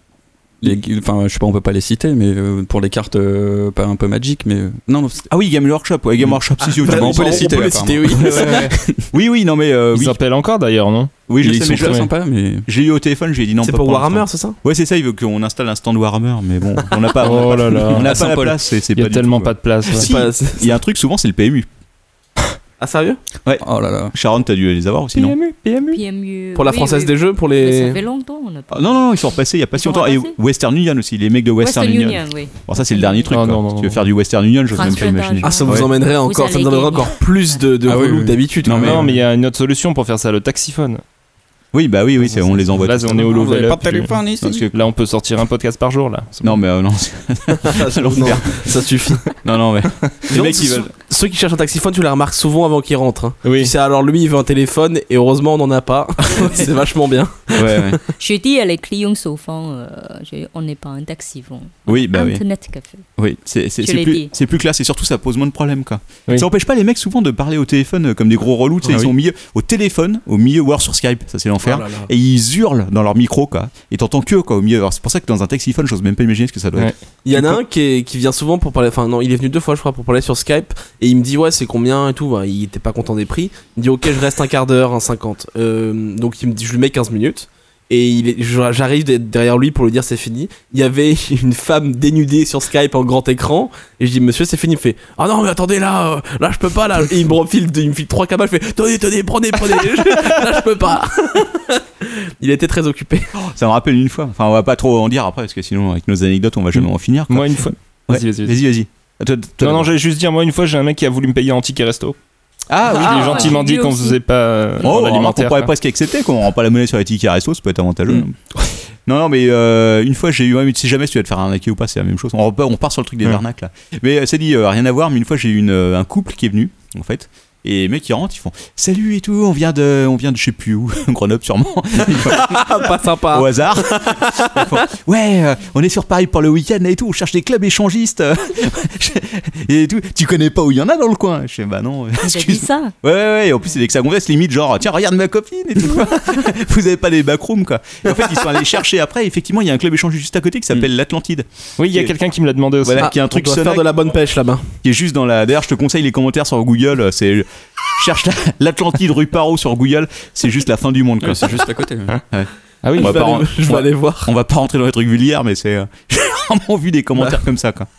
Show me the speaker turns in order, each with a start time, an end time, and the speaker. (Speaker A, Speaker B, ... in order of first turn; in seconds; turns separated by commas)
Speaker A: 0.6-5.3, Speaker B: 5.3-10.2, Speaker A: 6.2-9.0, Speaker C: 6.6-8.8, Speaker D: 8.4-8.7, Speaker D: 9.9-12.1, Speaker B: 11.3-12.1, Speaker A: 11.4-12.7, Speaker B: 12.7-21.7, Speaker C: 13.6-14.6, Speaker D: 17.2-20.1, Speaker A: 17.9-18.6, Speaker C: 19.9-20.8, Speaker C: 22.8-23.2, Speaker B: 23.4-25.4, Speaker A: 23.6-24.1, Speaker D: 25.1-26.0, Speaker E: 25.9-29.1, Speaker C: 26.6-28.0, Speaker B: 28.7-35.9, Speaker E: 29.8-30.3, Speaker E: 31.6-33.4, Speaker D: 33.3-34.0, Speaker E: 34.7-37.6, Speaker C: 35.4-39.0, Speaker A: 37.9-39.1, Speaker D: 38.7-41.0, Speaker B: 38.7-39.0, Speaker B: 41.7-43.2, Speaker D: 42.7-44.2, Speaker A: 43.2-44.6, Speaker B: 44.4-44.7, Speaker D: 44.7-46.6, Speaker B: 46.4-48.7, Speaker C: 47.6-49.3, Speaker B: 49.4-50.9, Speaker C: 50.3-58.0, Speaker D: 53.4-53.7, Speaker B: 57.5-58.0, Speaker E: 58.0-63.0, Speaker B: 61.9-62.4, Speaker B: 63.2-77.5, Speaker E: 63.8-64.3, Speaker C: 71.6-72.1, Speaker C: 77.2-103.3, Speaker B: 103.3-109.9, Speaker D: 106.8-108.6, Speaker D: 109.6-112.2, Speaker B: 112.7-113.6, Speaker E: 112.9-114.2, Speaker D: 112.9-115.7, Speaker B: 114.8-118.4, Speaker B: 119.1-132.7, Speaker C: 132.1-134.8, Speaker B: 133.3-152.1, Speaker E: 142.2-142.9, Speaker D: 151.8-153.1, Speaker B: 152.8-153.9, Speaker C: 153.0-154.8, Speaker B: 154.8-161.6, Speaker A: 161.2-162.2, Speaker B: 162.3-167.9, Speaker D: 162.8-163.3, Speaker C: 163.0-164.3